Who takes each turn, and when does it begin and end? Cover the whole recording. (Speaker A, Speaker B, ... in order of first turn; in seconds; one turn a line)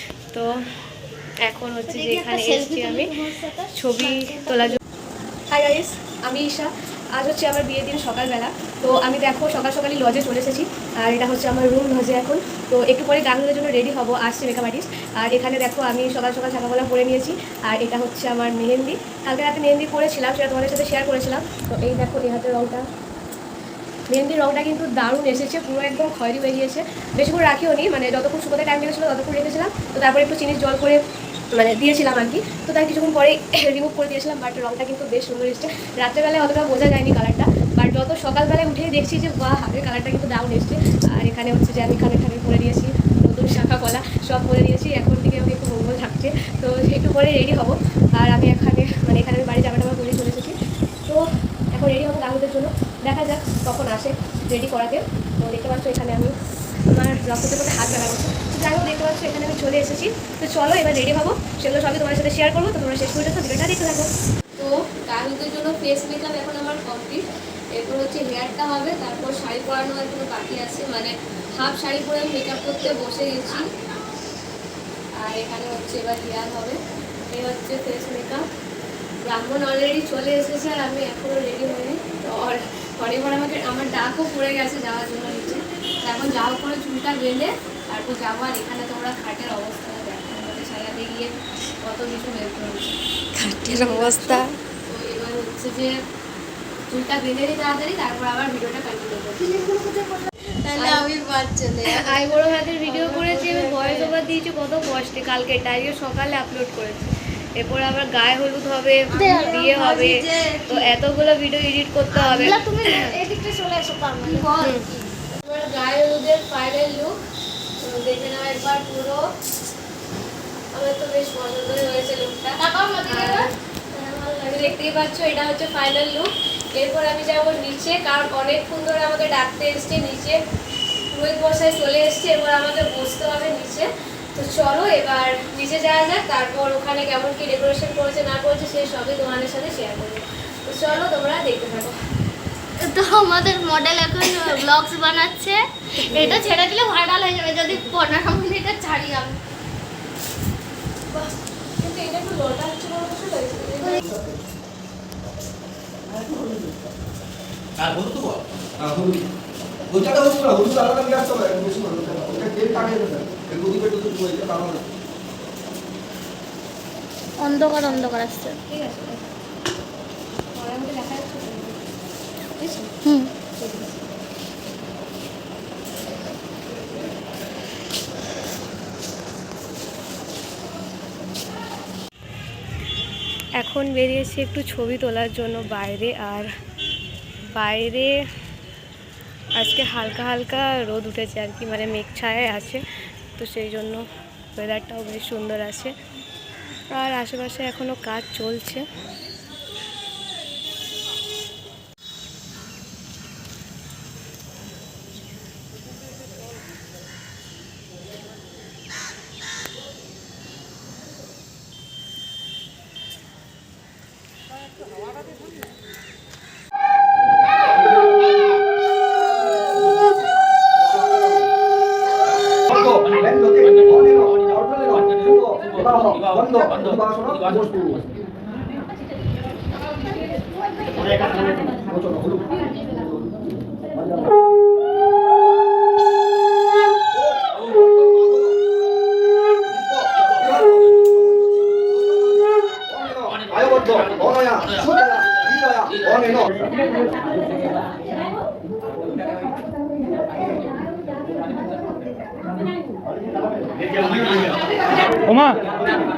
Speaker A: 1.4-3.1
Speaker B: 1.9-4.8
Speaker A: 3.7-4.8
Speaker A: 5.5-22.8
Speaker A: 24.1-31.0
Speaker A: 31.5-51.2
Speaker A: 51.7-56.3
Speaker A: 56.9-67.2
Speaker A: 67.8-73.7
Speaker A: 75.2-76.8
Speaker A: 77.3-78.4
Speaker A: 79.3-91.3
Speaker A: 91.8-93.0
Speaker A: 93.5-95.9
Speaker B: 93.7-94.4
Speaker A: 96.9-99.4
Speaker B: 99.4-104.2
Speaker A: 100.8-101.0
Speaker A: 101.9-113.1
Speaker B: 109.1-110.9
Speaker B: 112.1-115.0
Speaker A: 114.3-117.1
Speaker A: 117.8-119.2
Speaker A: 120.7-130.4
Speaker B: 122.6-123.5
Speaker A: 131.1-141.9
Speaker B: 142.8-149.4
Speaker A: 146.1-146.4
Speaker A: 151.1-154.0
Speaker C: 154.1-154.3
Speaker C: 157.8-158.2
Speaker C: 158.8-159.2
Speaker C: 159.9-164.8
Speaker B: 167.4-168.6
Speaker A: 167.8-168.2
Speaker A: 168.7-169.3
Speaker A: 170.5-171.8
Speaker A: 172.6-173.0
Speaker B: 173.0-173.3
Speaker A: 173.6-174.0
Speaker A: 183.6-186.5
Speaker A: 187.5-188.2
Speaker A: 189.5-192.8
Speaker A: 193.4-195.9
Speaker A: 196.9-198.8
Speaker C: 220.8-221.5
Speaker C: 222.7-228.0
Speaker B: 230.8-231.5
Speaker C: 231.8-233.3
Speaker C: 233.9-234.3
Speaker C: 237.1-238.7
Speaker C: 239.7-246.6